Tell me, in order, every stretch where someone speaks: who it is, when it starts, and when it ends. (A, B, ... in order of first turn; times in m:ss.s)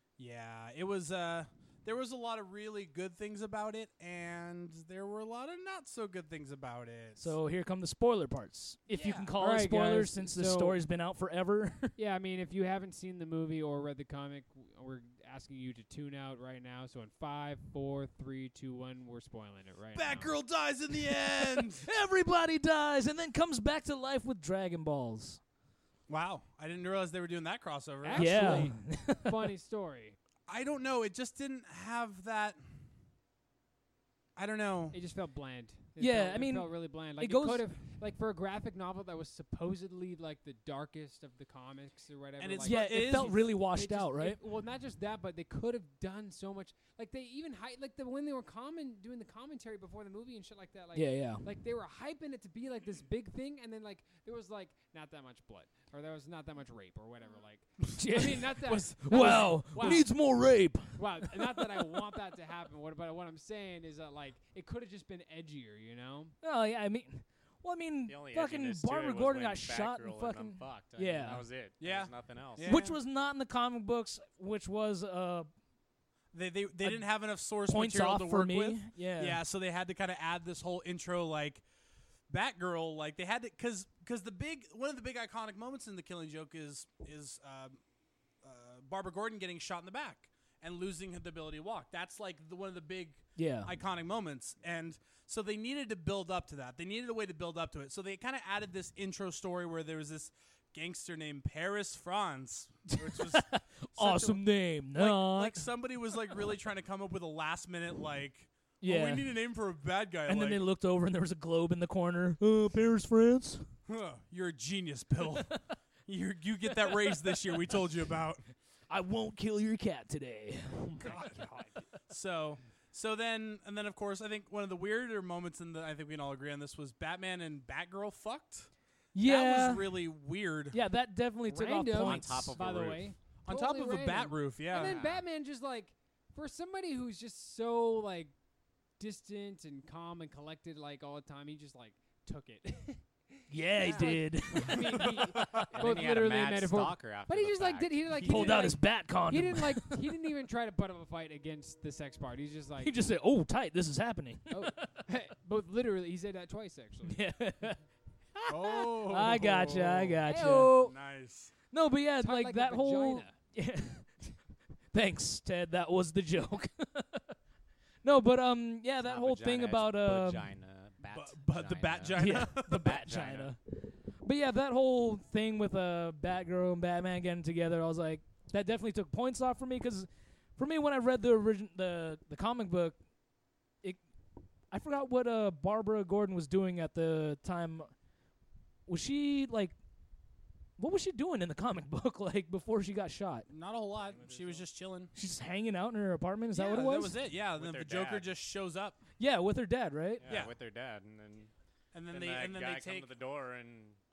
0:00.2-0:07.3 A
0:07.2-0:11.9 B
0:08.9-0:09.3 A
0:09.4-0:10.8 C
0:12.0-0:20.3 C
0:19.9-0:21.9 A
0:20.9-0:25.4 B
0:26.1-0:28.7 A
0:28.0-0:30.2 C
0:28.1-0:29.5 B
0:30.5-0:32.6 A
0:34.4-0:35.0 A
0:34.9-1:00.2 C
0:36.0-0:37.7 B
0:42.4-0:43.4 A
0:42.6-0:44.4 B
0:50.9-0:51.4 B
0:58.0-1:02.2 B
0:58.6-1:00.0 A
1:00.9-1:06.3 C
1:06.4-1:11.4 B
1:08.1-1:12.8 D
1:11.8-1:13.0 A
1:12.6-1:15.5 B
1:16.3-1:21.6 A
1:17.6-1:19.4 B
1:22.3-1:27.8 A
1:28.4-1:44.4 A
1:33.4-1:33.7 B
1:43.0-1:45.7 B
1:44.9-1:50.6 A
1:48.8-1:49.3 B
1:50.2-1:53.7 B
1:53.9-1:55.5 A
1:55.3-1:55.6 B
1:56.0-1:58.4 A
1:56.8-1:57.4 B
1:58.9-2:01.1 B
2:00.9-2:01.9 C
2:01.0-2:01.4 A
2:02.1-2:10.8 A
2:09.1-2:10.0 B
2:10.7-2:12.5 B
2:11.5-2:18.3 C
2:11.9-2:13.1 D
2:13.4-2:15.0 A
2:14.7-2:15.2 D
2:19.0-2:33.0 C
2:23.5-2:25.2 B
2:24.6-2:25.7 A
2:25.7-2:28.7 D
2:28.2-2:30.1 B
2:32.8-2:35.0 B
2:34.5-2:37.3 C
2:37.0-2:37.8 B
2:38.3-2:40.9 B
2:38.5-2:41.5 A
2:40.2-2:40.8 C
2:41.7-2:44.3 B
2:42.2-2:43.4 C
2:44.9-2:47.3 B
2:48.0-2:50.5 B
2:49.0-2:53.5 D
2:51.0-2:53.0 A
2:52.2-3:03.0 B
3:04.7-3:07.9 B
3:08.9-3:09.7 B
3:10.8-3:13.5 B
3:13.5-3:15.1 A
3:13.9-3:14.7 C
3:15.1-3:17.1 B
3:16.5-3:19.0 A
3:17.4-3:18.3 D
3:19.2-3:20.2 B
3:20.2-3:21.5 D
3:20.3-3:20.5 A
3:21.9-3:23.1 A
3:22.1-3:24.0 D